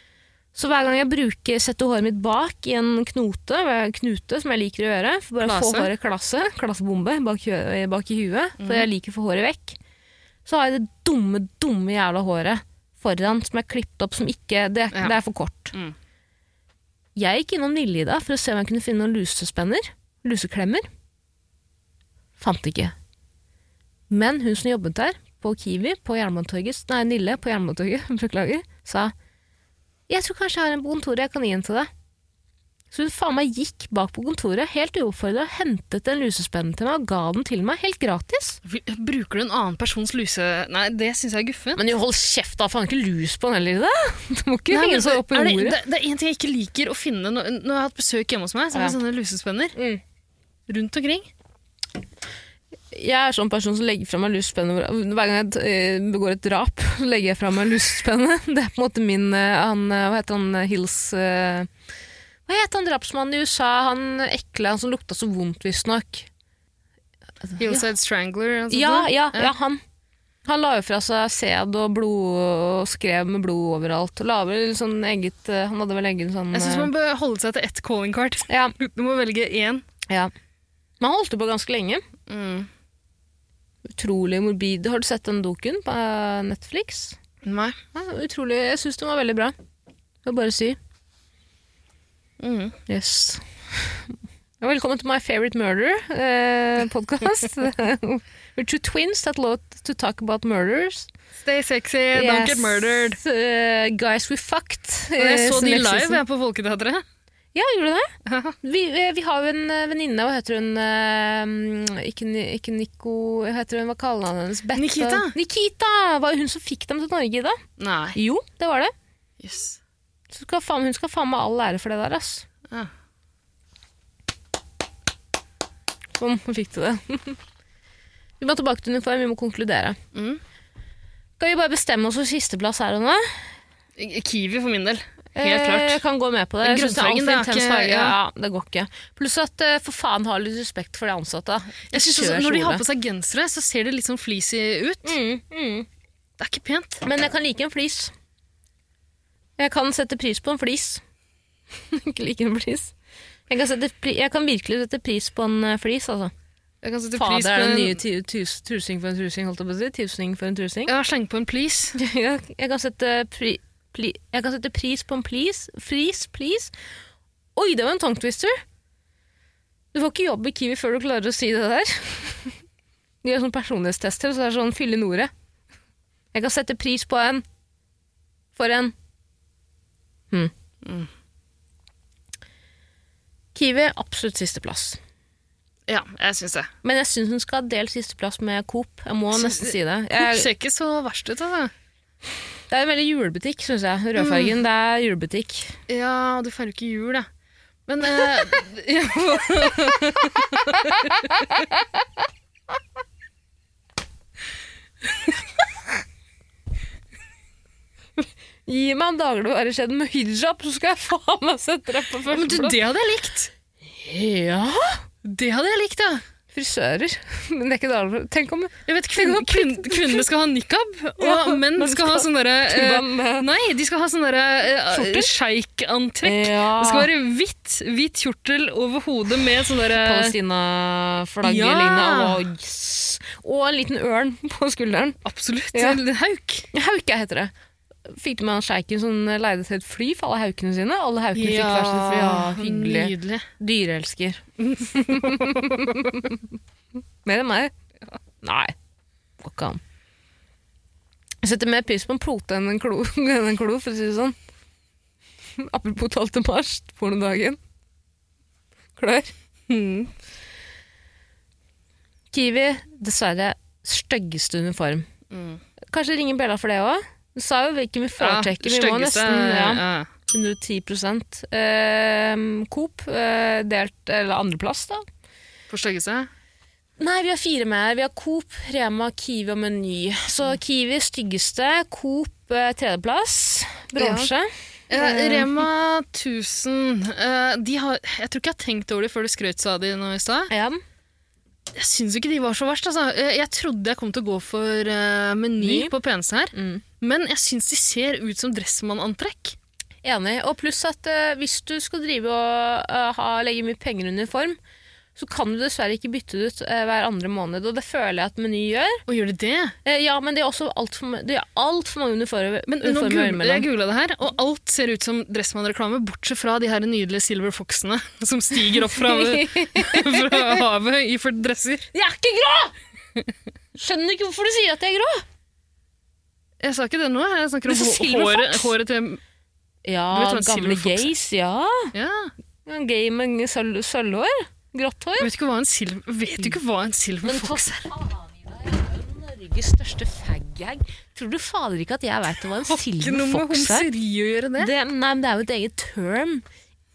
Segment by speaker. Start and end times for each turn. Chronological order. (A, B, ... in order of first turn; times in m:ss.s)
0:00.6-0:09.8 A
0:05.4-0:05.9 B
0:08.6-0:08.9 B
0:10.5-0:15.7 A
0:17.2-0:20.9 A
0:22.4-0:22.9 A
0:24.1-0:29.1 A
0:30.1-0:31.9 A
0:32.9-0:38.6 A
0:38.6-0:41.8 B
0:41.8-0:45.8 A
0:44.7-0:49.8 B
0:49.8-0:50.0 A
0:50.7-0:51.3 B
0:52.9-1:01.7 A
1:02.5-1:06.3 A
1:07.5-1:07.8 A
1:07.6-1:09.5 B
1:08.7-1:09.8 A
1:10.5-1:16.9 A
1:16.5-1:19.8 B
1:18.5-1:18.7 A
1:21.0-1:22.0 A
1:22.3-1:22.7 B
1:23.8-1:27.2 A
1:27.4-1:27.8 B
1:27.9-1:29.6 A
1:30.2-1:30.8 A
1:32.4-1:32.8 B
1:32.9-1:41.1 A
1:41.4-1:43.2 B
1:42.1-1:46.2 A
1:45.2-1:47.0 B
1:47.6-1:48.1 A
1:48.3-1:48.6 B
1:48.6-1:57.6 A
1:54.7-1:55.4 B
1:57.8-1:58.2 B
1:58.2-1:58.9 A
1:59.4-1:59.8 B
2:00.3-2:02.5 A
2:06.2-2:07.4 A
2:08.4-2:10.0 A
2:10.1-2:10.4 B
2:11.4-2:13.5 A
2:14.0-2:16.0 B
2:15.4-2:22.8 A
2:16.6-2:18.2 B
2:21.9-2:25.2 B
2:25.0-2:25.9 A
2:26.4-2:27.0 B
2:27.0-2:28.1 A
2:29.6-2:31.0 A
2:31.9-2:32.9 A
2:33.5-2:36.3 A
2:36.8-2:38.0 B
2:37.2-2:40.9 A
2:40.9-2:42.0 B
2:42.0-2:46.7 A
2:47.6-2:48.6 A
2:49.9-2:52.6 A
2:53.2-2:55.3 A
2:56.3-2:57.4 A
2:58.6-2:58.9 A
3:00.8-3:01.1 B
3:03.5-3:05.0 A
3:05.9-3:06.7 B
3:06.8-3:10.5 A
3:09.3-3:11.7 B
3:12.7-3:15.8 A
3:14.2-3:14.6 B
3:15.9-3:17.3 B
3:17.9-3:21.4 B
3:21.3-3:21.8 A
3:28.7-3:32.8 A
3:32.3-3:33.5 B
3:33.9-3:35.0 A
3:35.2-3:36.2 B
3:36.5-3:40.2 A
3:38.9-3:50.4 B
3:41.2-3:43.5 A
3:44.9-3:45.3 A
3:46.2-3:47.1 A
3:49.9-3:55.2 A
3:51.4-3:52.4 B
3:55.2-3:56.7 B
3:55.7-3:56.0 A
3:56.7-3:57.5 A
3:58.1-4:06.4 A
4:01.4-4:03.5 B
4:04.6-4:06.0 B
4:07.2-4:07.7 A
4:08.4-4:08.7 A
4:09.4-4:09.8 A
4:11.4-4:14.4 A
4:15.6-4:17.6 A
4:19.0-4:19.3 A
4:19.7-4:20.1 B
4:22.3-4:25.1 A
4:25.3-4:25.6 B
4:25.9-4:35.0 A
4:28.2-4:30.1 B
4:35.7-4:36.3 B
4:37.0-4:45.6 A
4:44.0-4:44.3 B
4:44.9-4:50.5 B
4:50.5-4:50.8 A
4:51.7-4:59.6 B
4:55.6-4:55.9 A
4:56.5-4:56.8 A
5:00.0-5:04.6 A
5:05.2-5:09.0 A
5:09.1-5:09.8 B
5:09.8-5:13.7 A
5:12.7-5:21.9 B
5:18.8-5:20.6 A
5:21.9-5:22.8 A
5:23.8-5:25.2 A
5:26.6-5:29.2 B
5:27.7-5:28.7 A
5:29.8-5:31.9 A
5:30.1-5:31.1 B
5:31.9-5:32.3 B
5:32.7-5:35.3 A
5:35.2-5:37.8 B
5:37.2-5:43.9 A
5:42.7-5:44.7 B
5:44.6-5:46.4 A